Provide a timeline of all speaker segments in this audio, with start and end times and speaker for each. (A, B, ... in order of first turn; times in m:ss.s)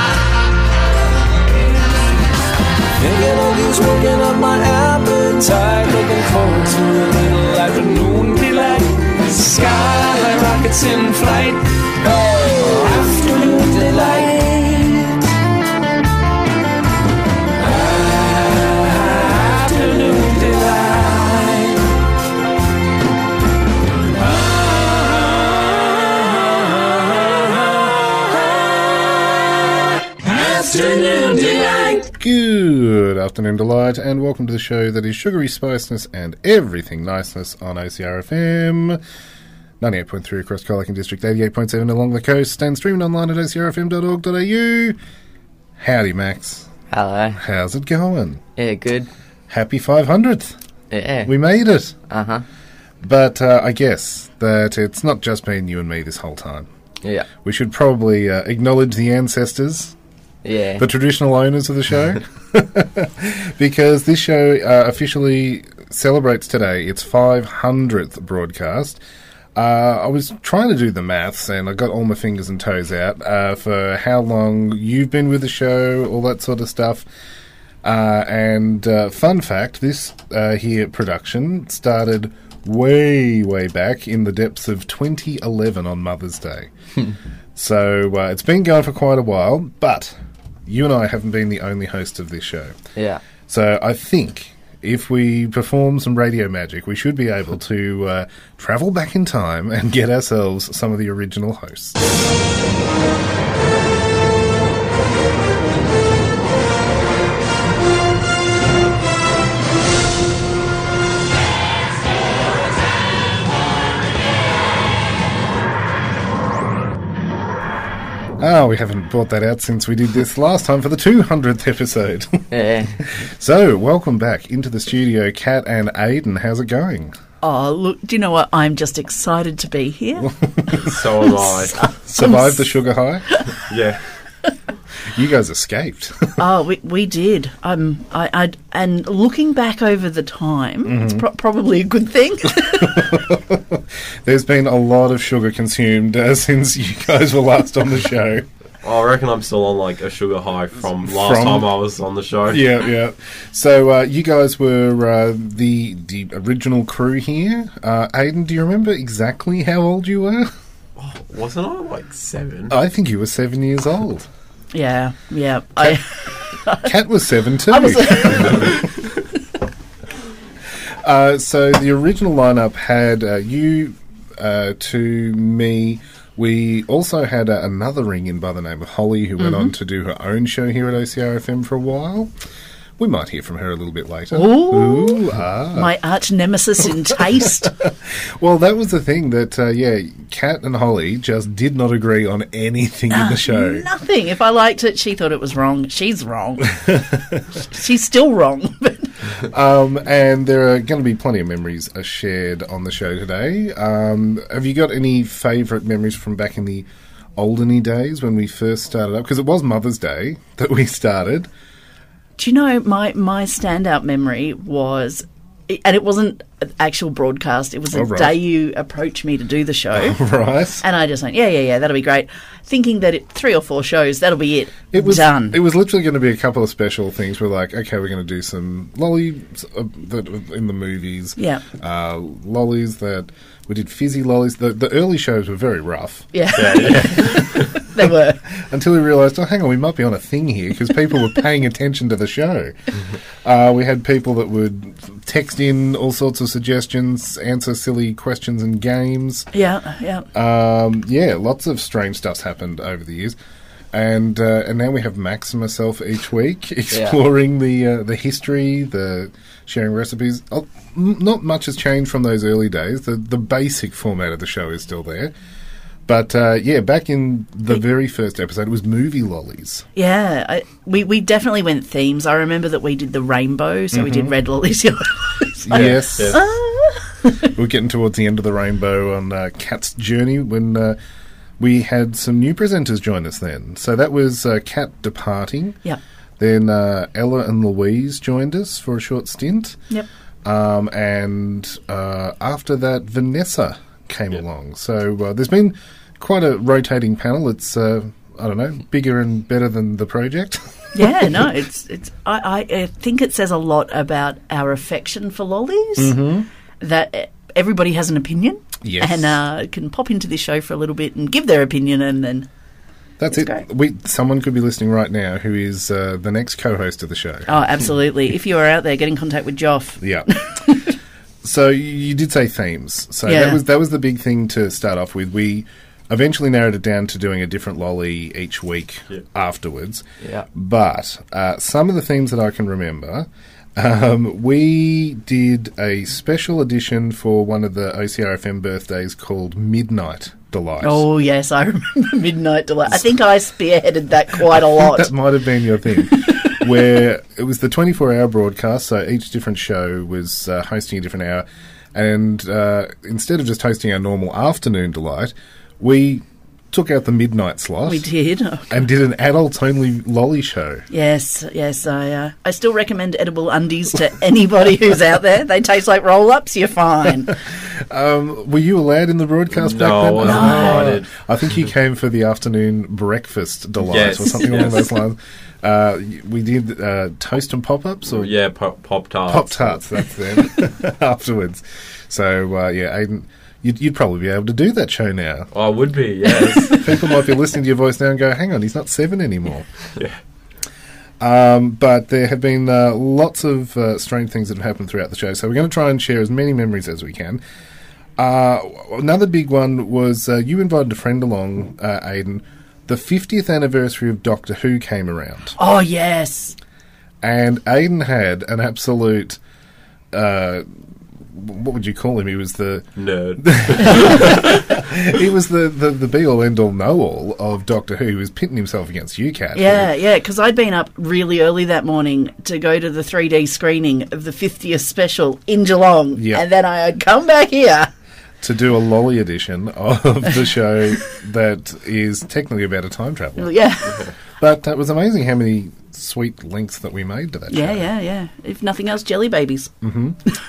0:03.0-0:11.6 A
0:12.4-0:15.2 A
0:17.6-0:21.9 A
0:30.2-0:32.1 A
0:32.1-0:39.0 B
0:39.8-0:45.0 B
0:45.8-0:46.7 B
0:46.9-0:47.4 C
0:47.3-0:48.4 B
0:48.6-0:49.1 C
0:49.5-0:50.6 B
0:50.9-0:51.3 C
0:51.2-0:51.9 B
0:52.1-0:52.4 C
0:53.0-0:56.7 B
0:57.0-0:57.3 C
0:57.4-0:59.9 B
1:00.4-1:00.8 C
1:00.8-1:09.0 B
1:09.5-1:17.0 B
1:17.8-1:26.7 B
1:27.6-1:30.1 B
1:30.6-1:32.8 B
1:33.0-1:33.2 C
1:33.5-1:42.0 B
1:58.4-2:02.4 B
2:02.5-2:03.0 C
2:03.1-2:07.1 B
2:07.4-2:10.3 D
2:10.2-2:11.0 B
2:10.8-2:11.9 E
2:11.6-2:12.7 D
2:12.0-2:13.2 B
2:13.7-2:14.0 E
2:15.1-2:16.3 B
2:16.4-2:23.0 D
2:20.8-2:21.2 B
2:22.6-2:28.4 B
2:28.8-2:32.7 E
2:31.0-2:31.7 B
2:32.5-2:40.5 B
2:41.0-2:42.7 E
2:42.7-2:44.3 B
2:44.7-2:46.9 D
2:46.8-2:48.8 B
2:47.7-2:48.7 D
2:51.0-3:02.3 B
2:59.4-2:59.7 D
3:03.0-3:05.9 B
3:04.3-3:05.2 D
3:05.7-3:07.7 D
3:07.1-3:13.8 B
3:13.1-3:16.7 D
3:16.9-3:17.4 B
3:17.6-3:19.1 D
3:19.4-3:31.5 B
3:32.4-3:40.2 D
3:37.9-3:38.4 B
3:39.9-3:40.8 B
3:40.8-3:45.6 D
3:44.9-3:56.3 B
3:51.4-3:51.6 D
3:56.3-3:58.4 D
3:56.6-3:57.8 E
3:58.5-4:02.7 B
4:03.4-4:09.5 B
4:09.5-4:10.3 D
4:10.3-4:13.4 B
4:13.9-4:25.3 B
4:16.9-4:17.2 C
4:26.0-4:29.8 B
4:30.0-4:37.5 D
4:33.9-4:34.3 B
4:35.6-4:36.4 B
4:35.7-4:36.4 E
4:37.5-4:41.0 B
4:41.6-4:45.8 B
4:46.4-4:49.8 B
4:50.4-5:01.4 B
5:00.9-5:06.2 D
5:06.0-5:06.5 B
5:06.8-5:12.5 D
5:08.8-5:09.4 B
5:13.2-5:17.5 B
5:13.3-5:13.6 D
5:17.5-5:20.9 D
5:20.0-5:20.3 B
5:21.4-5:41.0 B
5:23.2-5:23.6 D
5:30.2-5:30.5 C
5:40.8-5:45.1 D
5:44.5-5:58.1 B
5:57.8-5:58.7 D
5:58.7-6:00.8 B
6:00.9-6:07.4 D
6:07.7-6:18.3 B
6:09.5-6:11.1 E
6:10.2-6:10.9 D
6:13.8-6:14.9 E
6:18.1-6:19.8 E
6:19.3-6:25.5 B
6:25.5-6:27.2 E
6:26.7-6:29.7 B
6:31.2-6:37.4 B
6:38.2-6:45.6 B
6:45.6-6:46.6 D
6:47.2-6:49.4 B
6:50.1-6:50.6 B
6:51.3-6:52.9 B
6:53.0-6:54.6 E
6:53.4-6:59.9 B
6:53.8-6:54.1 D
6:59.5-7:07.9 D
7:06.1-7:06.4 B
7:08.4-7:13.5 B
7:13.4-7:14.0 D
7:14.4-7:17.9 B
7:17.5-7:19.7 D
7:19.8-7:20.2 B